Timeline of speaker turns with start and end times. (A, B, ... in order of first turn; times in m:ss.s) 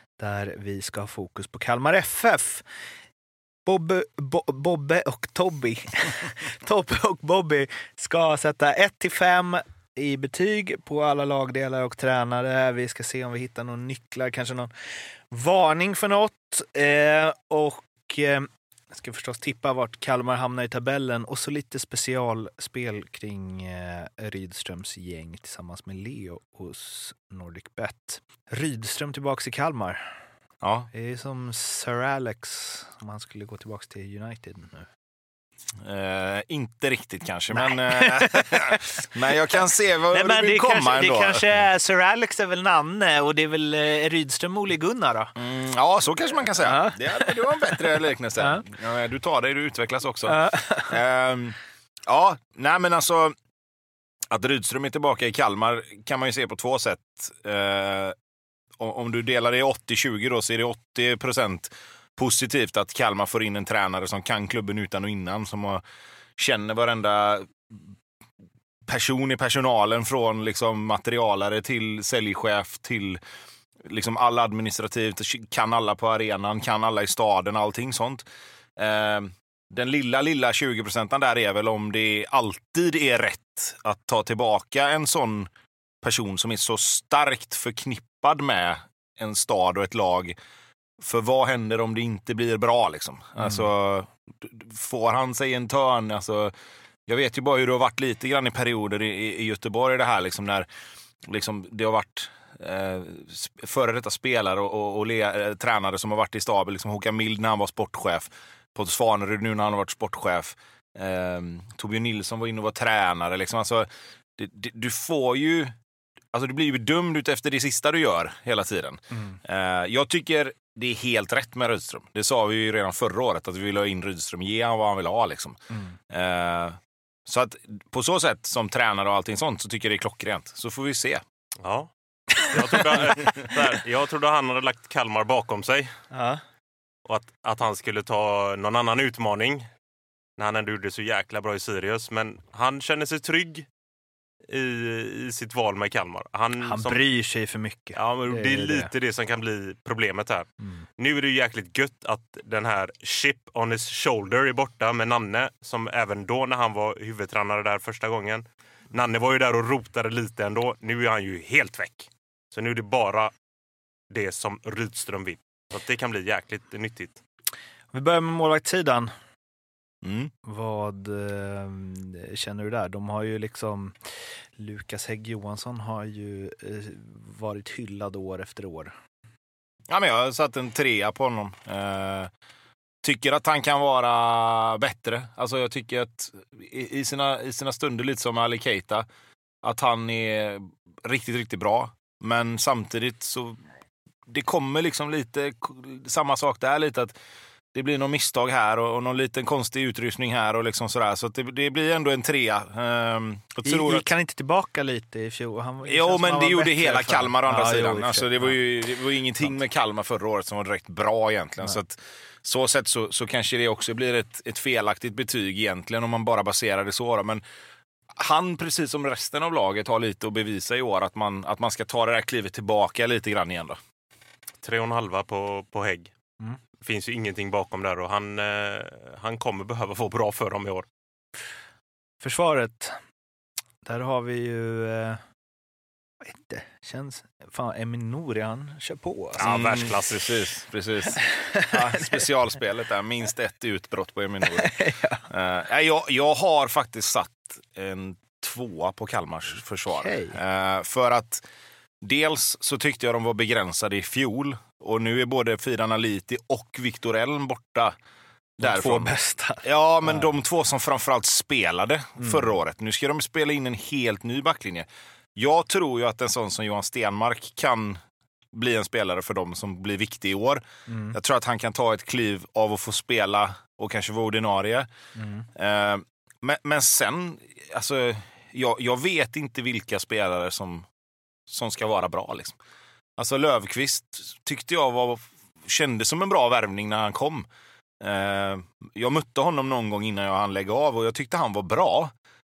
0:00.2-0:02.6 A
0:03.6-0:14.7 A
0:15.3-0:30.1 A
0:30.6-0:30.9 B
0:30.9-0:34.9 A
0:35.8-0:41.5 B
0:37.5-0:39.0 A
0:40.1-0:45.3 A
0:45.4-0:53.4 B
0:46.6-0:48.6 A
0:50.3-0:50.9 A
0:54.3-0:58.2 B
0:58.8-1:05.8 B
1:06.4-1:07.8 B
1:08.8-1:13.2 B
1:13.8-1:18.2 B
1:18.8-1:25.5 B
1:26.0-1:30.4 B
1:31.0-1:36.5 B
1:33.4-1:33.6 A
1:37.1-1:40.7 B
1:41.2-1:55.8 B
1:56.3-2:05.6 B
2:05.7-2:06.0 A
2:06.1-2:11.2 B
2:11.6-2:15.9 C
2:16.1-2:16.4 A
2:17.0-2:19.7 C
2:20.4-2:23.7 C
2:24.5-2:27.0 C
2:26.6-2:28.9 A
2:28.0-2:43.3 C
2:44.1-2:47.2 C
2:47.9-2:49.1 A
2:50.0-2:50.3 B
2:50.4-2:54.0 A
2:54.6-2:58.9 A
2:59.9-3:02.3 B
3:03.0-3:09.0 B
3:09.6-3:13.6 B
3:14.3-3:17.2 B
3:17.7-3:24.1 B
3:23.6-3:28.6 A
3:25.8-3:37.4 B
3:38.1-3:43.8 B
3:44.6-3:46.1 C
3:46.8-3:50.9 C
3:52.2-3:53.0 A
3:53.8-3:55.2 A
3:56.2-3:59.5 A
3:59.4-4:00.4 C
3:59.4-4:11.4 B
4:01.4-4:02.1 A
4:04.5-4:05.2 A
4:10.0-4:10.4 A
4:12.0-4:18.0 B
4:18.6-4:28.0 B
4:18.6-4:20.3 A
4:22.2-4:22.5 A
4:28.5-4:34.9 B
4:30.9-4:31.2 A
4:35.2-4:35.5 A
4:35.6-4:40.9 B
4:41.5-4:42.6 B
4:43.2-4:47.5 B
4:48.0-4:52.1 B